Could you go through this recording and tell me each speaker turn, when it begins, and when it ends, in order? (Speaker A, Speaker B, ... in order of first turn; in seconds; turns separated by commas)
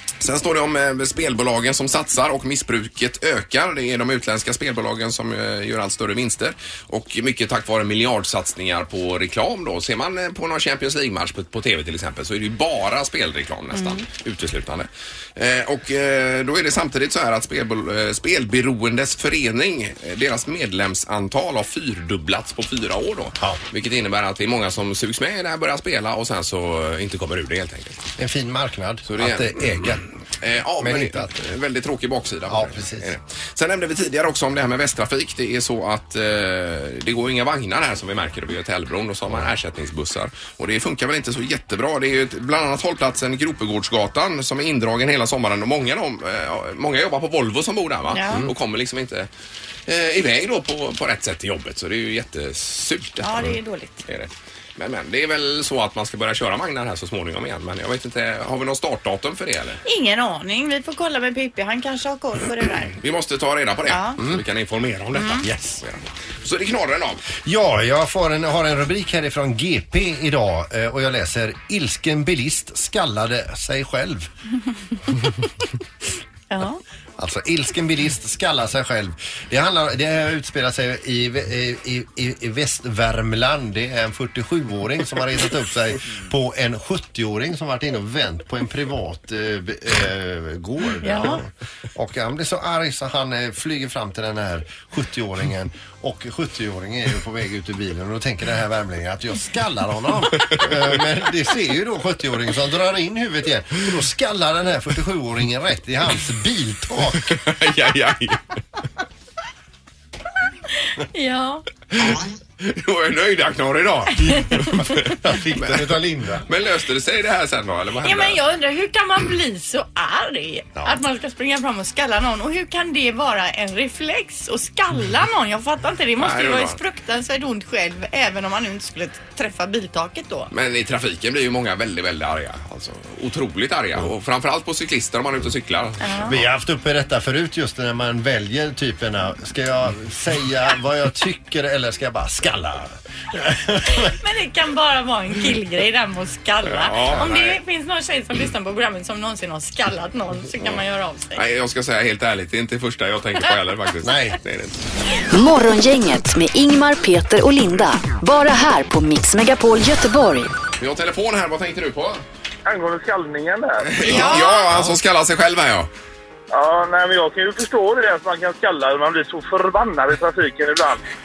Speaker A: 0.2-28.1, Speaker B: 13.7-14.1, Speaker C: 28.2-30.0, Speaker A: 29.1-49.3, Speaker C: 30.8-31.3, Speaker C: 32.5-33.1, Speaker B: 48.1-48.5, Speaker A: 49.9-59.8, Speaker B: 53.2-54.0, Speaker B: 59.8-63.0, Speaker A: 63.0-67.2, Speaker B: 63.9-64.2, Speaker B: 65.2-65.4, Speaker C: 65.4-65.8, Speaker C: 67.4-74.3, Speaker B: 76.5-76.8, Speaker C: 77.2-107.4, Speaker B: 91.0-91.4, Speaker A: 107.3-108.6, Speaker B: 111.0-111.6, Speaker A: 111.9-115.9, Speaker C: 115.1-116.5, Speaker A: 116.5-118.4, Speaker B: 118.0-130.5, Speaker A: 126.2-126.8, Speaker A: 130.5-136.4, Speaker B: 136.0-136.3, Speaker C: 136.3-144.1, Speaker B: 144.0-151.4, Speaker A: 146.7-147.6, Speaker A: 151.3-154.8, Speaker C: 154.0-154.4, Speaker D: 155.3-160.5, Speaker A: 160.8-162.2, Speaker E: 162.7-164.0, Speaker A: 163.8-165.9, Speaker B: 164.0-164.7, Speaker C: 164.7-165.0, Speaker E: 166.5-171.0